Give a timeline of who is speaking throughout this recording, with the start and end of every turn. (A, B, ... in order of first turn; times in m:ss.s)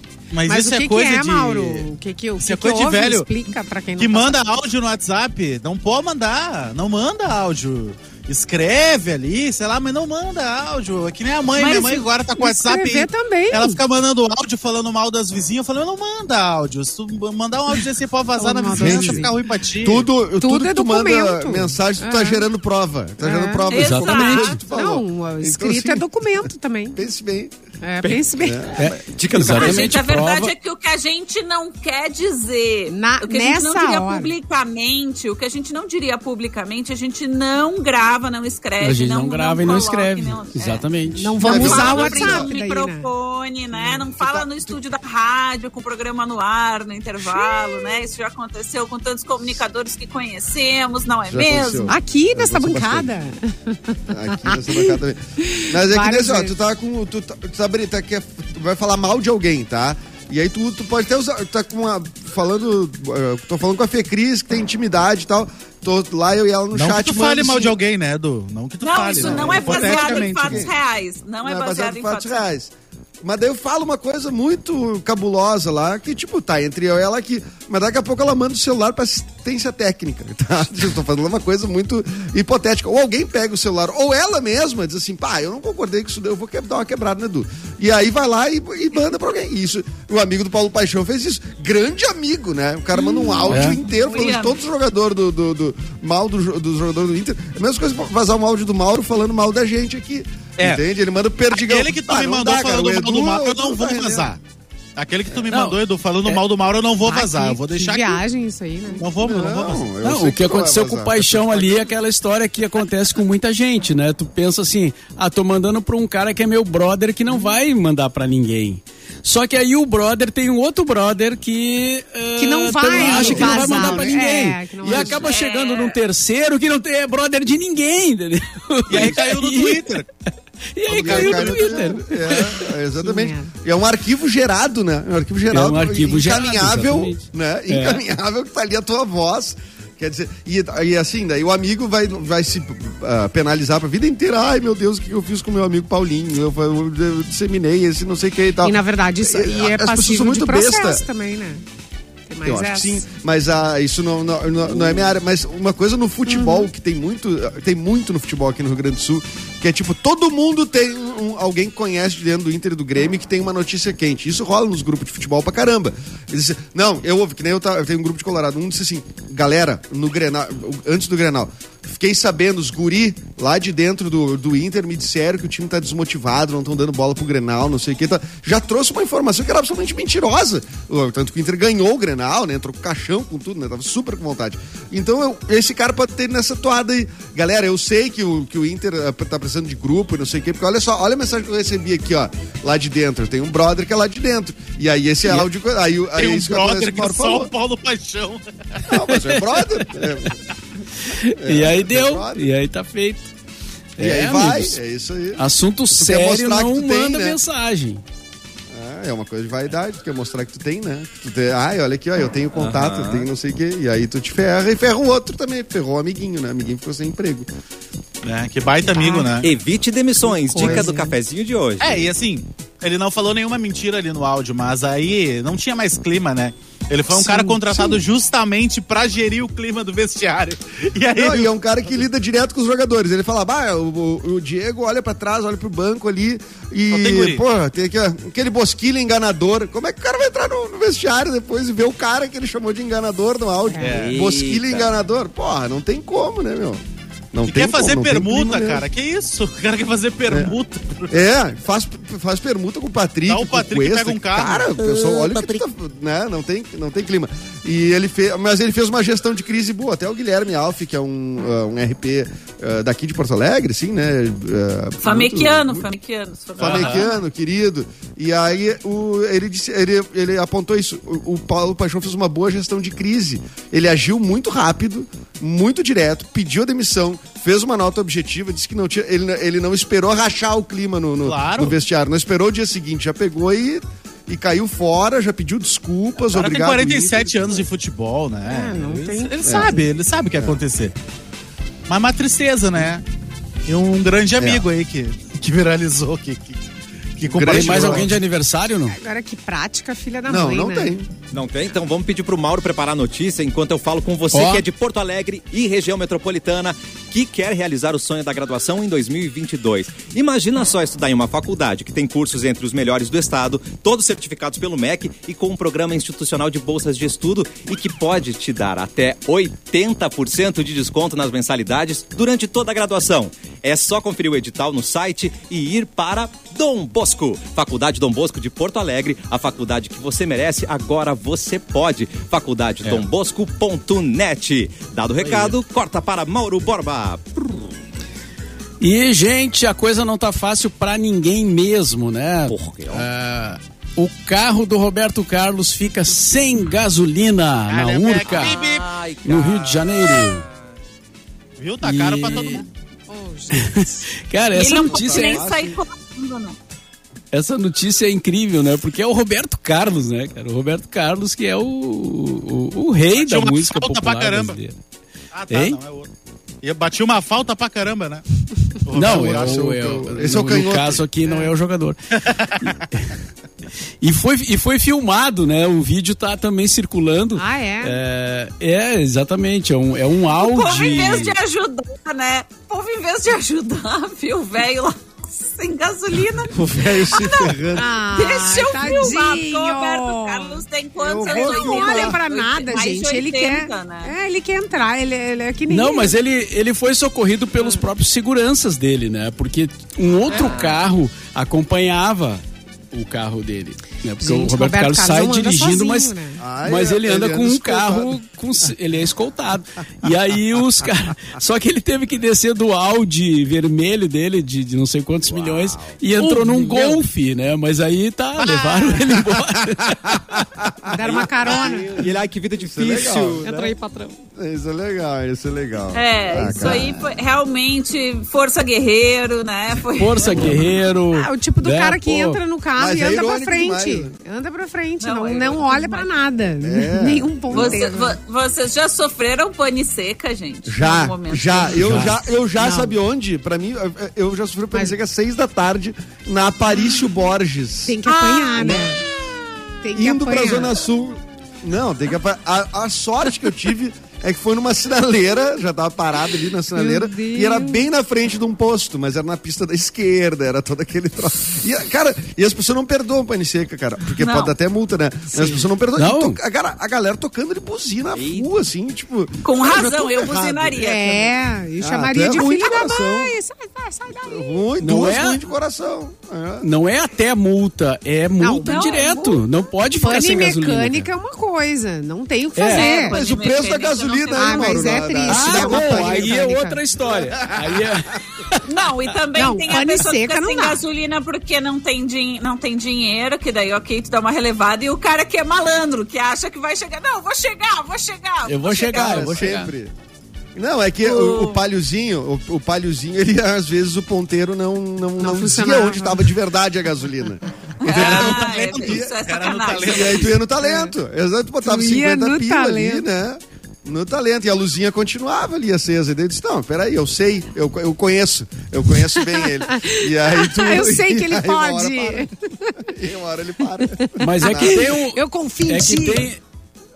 0:00.3-0:03.3 A
0:00.5-0:04.6 B
0:04.0-0:20.1 A
0:11.6-0:12.0 C
0:12.4-0:13.8 B
0:18.4-0:19.3 B
0:18.7-0:19.3 D
0:19.8-0:27.5 D
0:20.4-0:22.4 B
0:23.2-0:23.7 B
0:23.7-0:24.6 C
0:23.7-0:24.6 E
0:24.7-0:27.0 B
0:27.8-0:28.7 B
0:28.0-0:29.8 D
0:28.8-0:30.5 E
0:29.1-0:29.8 F
0:29.5-0:40.8 C
0:32.9-0:34.3 B
0:38.8-0:41.6 E
0:41.2-0:43.1 B
0:41.4-0:42.5 D
0:41.4-0:51.9 C
0:44.2-0:44.8 D
0:47.3-0:47.7 B
0:51.3-0:53.1 D
0:51.9-0:56.5 B
0:54.1-1:07.8 D
1:06.7-1:10.7 A
1:08.8-1:12.5 C
1:09.2-1:10.7 D
1:11.4-1:44.4 D
1:33.0-1:33.4 B
1:33.5-1:33.8 E
1:34.0-1:34.6 C
1:40.6-1:40.8 A
1:41.5-1:44.4 A
1:45.0-1:48.2 A
1:45.5-1:46.4 E
1:47.0-1:49.1 B
1:49.0-1:49.9 A
1:49.2-1:51.8 D
1:50.0-2:09.9 E
2:02.4-2:05.3 B
2:02.9-2:04.2 D
2:03.1-2:03.6 A
2:04.8-2:05.2 D
2:05.2-2:06.0 C
2:08.9-2:10.1 A
2:10.7-2:12.7 E
2:10.9-2:11.9 A
2:10.9-2:31.0 D
2:13.0-2:13.5 B
2:15.5-2:18.0 E
2:28.6-2:31.6 B
2:32.3-2:33.0 B
2:32.4-3:17.5 D
2:36.3-2:36.7 B
3:16.1-3:18.4 A
3:18.8-3:20.4 D
3:18.9-3:20.2 E
3:21.0-3:23.3 E
3:21.3-3:22.5 D
3:24.0-3:24.8 E
3:24.0-3:27.4 D
3:25.4-3:28.0 E
3:28.7-3:37.5 D
3:32.6-3:33.3 F
3:38.2-3:39.5 A
3:38.9-3:39.4 B
3:39.4-3:42.0 F
3:40.5-3:41.1 B
3:40.6-3:40.8 A
3:41.8-3:51.5 A
3:47.1-3:48.0 B
3:51.1-4:06.8 D
3:56.9-3:57.4 A
4:03.7-4:04.1 B
4:03.8-4:04.2 A
4:03.8-4:04.9 F
4:07.3-4:08.8 D
4:07.5-4:11.2 A
4:10.3-4:10.6 D
4:11.1-4:25.9 D
4:13.3-4:14.8 A
4:14.9-4:15.5 F
4:25.0-4:27.2 C
4:26.6-4:47.6 D
4:26.6-4:27.0 A
4:41.2-4:41.8 A
4:46.3-4:50.9 A
4:48.4-4:49.8 B
4:49.4-4:49.8 D
4:51.9-4:53.0 A
4:53.7-4:56.6 A
4:54.4-4:54.6 D
4:57.2-4:58.1 A
4:57.3-4:58.1 D
4:57.4-4:59.0 E
4:58.9-5:00.9 B
5:00.2-5:01.1 D
5:01.3-5:37.6 F
5:04.3-5:04.6 E
5:35.2-5:35.5 A
5:38.8-5:48.5 E
5:42.5-5:43.0 F
5:47.7-5:48.9 A
5:48.3-5:50.4 F
5:49.2-5:50.4 E
5:51.6-5:52.6 A
5:51.8-5:52.6 E
5:53.1-5:54.1 B
5:53.5-5:55.5 E
5:54.5-5:56.6 C
5:54.8-5:55.8 D
5:57.3-6:04.8 E
6:03.1-6:04.6 A
6:05.3-6:06.1 A
6:05.5-6:05.8 E
6:06.6-6:08.2 A
6:08.8-6:09.7 A
6:08.9-6:12.0 E
6:09.0-6:11.0 D
6:11.2-6:11.5 B
6:12.2-6:12.8 A
6:12.6-6:13.1 E
6:14.0-6:21.4 E
6:17.4-6:18.0 B
6:20.4-6:34.1 C
6:26.5-6:28.0 D
6:27.7-6:30.6 B
6:31.0-6:32.2 D
6:31.2-6:36.2 B
6:35.7-7:00.5 E
6:37.6-6:37.8 B
6:40.3-6:40.8 F
6:44.2-6:46.4 B
6:46.4-6:48.2 D
6:55.3-6:56.0 F
6:56.2-6:57.0 A
6:56.4-6:56.7 B
6:58.6-6:59.0 B
7:00.6-7:01.7 D
7:00.8-7:02.0 B
7:01.0-7:03.7 F
7:02.6-7:03.5 D
7:03.4-7:04.2 B
7:04.4-7:07.0 D
7:05.9-7:10.6 C
7:10.0-7:12.4 E
7:11.1-7:18.2 B
7:12.8-7:14.1 D
7:15.0-7:16.1 C
7:16.6-7:17.9 D
7:17.5-7:22.0 C
7:20.7-7:29.0 D
7:21.8-7:22.2 E
7:22.5-7:23.0 B
7:27.8-7:29.0 B
7:29.8-7:30.8 B
7:29.9-7:50.8 D
7:36.7-7:37.8 B
7:44.2-7:44.5 C
7:46.0-7:46.4 E
7:48.1-7:48.5 F
7:49.4-7:51.3 C
7:50.8-7:54.6 B
7:51.8-7:53.3 D
7:54.2-7:56.7 D
7:54.8-7:55.4 E
7:56.6-8:01.1 E
7:58.4-7:59.2 B
7:58.7-7:59.4 C
8:00.0-8:03.2 B
8:02.5-8:02.9 E
8:02.7-8:05.0 C
8:03.0-8:06.4 D
8:04.4-8:06.8 B
8:05.3-8:08.7 E
8:07.0-8:08.2 D
8:08.6-8:19.4 C
8:09.3-8:10.8 B
8:18.4-8:19.7 E
8:18.9-8:19.9 D
8:20.5-8:29.2 D
8:21.0-8:21.6 C
8:25.2-8:26.3 B
8:27.8-8:30.4 C
8:27.8-8:30.4 A
8:29.7-8:44.9 D
8:30.6-8:30.9 B
8:31.6-8:33.0 B
8:39.1-8:42.9 B
8:43.9-8:46.3 B
8:44.2-8:46.4 E